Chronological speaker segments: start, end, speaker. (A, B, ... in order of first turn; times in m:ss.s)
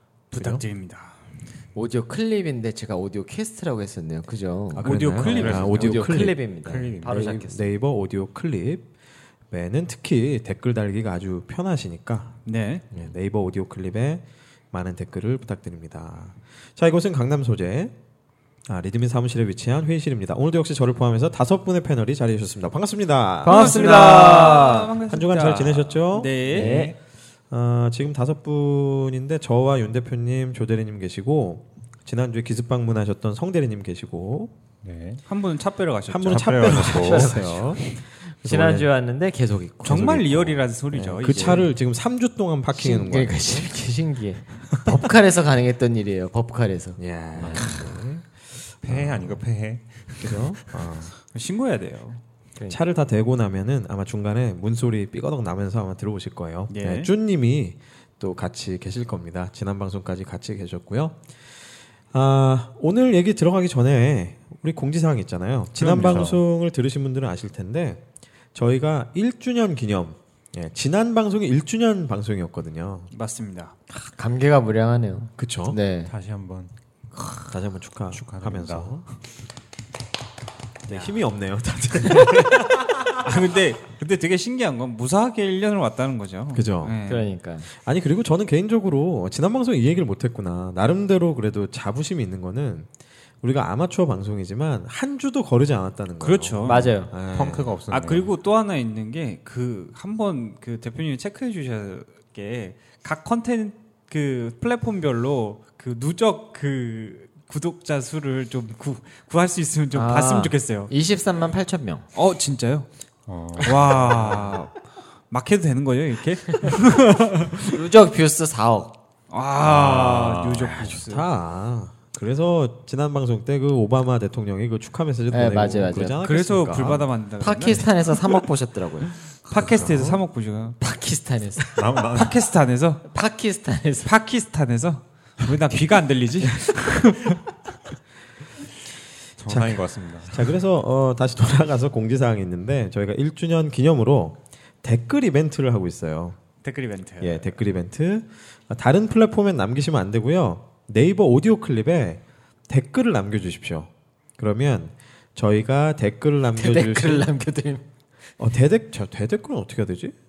0:00.3-0:01.2 A
0:01.8-0:07.8 B
0:04.7-0:06.4 C
0:04.8-0:06.2 A
0:05.2-0:06.0 D
0:06.6-0:07.3 D
0:07.0-0:08.9 C
0:09.5-0:12.4 C
0:12.5-0:12.8 A
0:12.9-0:17.9 C
0:18.7-0:26.5 C
0:23.4-0:24.8 B
0:23.4-0:26.8 A
0:26.5-0:26.9 B
0:26.6-0:26.9 D
0:27.5-0:34.5 C
0:34.8-0:35.2 D
0:35.3-0:36.9 A
0:36.1-0:38.9 C
0:36.3-0:37.5 D
0:36.9-0:37.8 B
0:38.4-0:40.2 B
0:39.8-0:41.7 A
0:39.8-0:43.7 C
0:42.7-0:47.8 B
0:47.0-0:48.3 C
0:47.5-0:47.9 D
0:48.8-0:50.8 D
0:48.8-0:49.5 C
0:50.2-0:51.1 C
0:51.3-0:52.2 A
0:52.7-1:01.3 C
0:56.7-0:57.1 A
1:02.1-1:08.0 C
1:05.8-1:06.4 D
1:08.5-1:13.1 C
1:13.1-1:13.7 A
1:13.9-1:16.1 B
1:15.4-1:15.8 C
1:16.1-1:16.7 D
1:17.5-1:19.0 C
1:18.1-1:19.0 D
1:20.9-1:23.0 C
1:23.2-1:27.3 A
1:26.5-1:27.0 C
1:27.1-1:27.7 B
1:27.7-1:32.9 C
1:33.4-1:37.8 C
1:36.2-1:36.9 A
1:36.7-1:37.1 B
1:36.7-1:38.3 D
1:37.9-1:50.9 A
1:49.9-1:52.1 B
1:52.2-1:52.9 A
1:53.3-1:54.6 D
1:53.6-1:57.8 A
1:57.7-1:59.0 B
1:59.3-2:01.3 A
1:59.6-2:07.1 C
1:59.8-2:00.8 D
2:05.3-2:06.2 B
2:06.2-2:07.9 A
2:07.4-2:09.1 B
2:09.5-2:10.8 A
2:09.5-2:10.2 C
2:10.8-2:11.7 B
2:11.8-2:12.4 D
2:12.2-2:13.1 A
2:13.1-2:14.1 B
2:14.0-2:17.4 A
2:19.4-2:20.5 D
2:19.5-2:26.4 C
2:26.6-2:27.5 A
2:27.2-2:37.3 C
2:36.6-2:37.9 B
2:38.4-2:40.2 C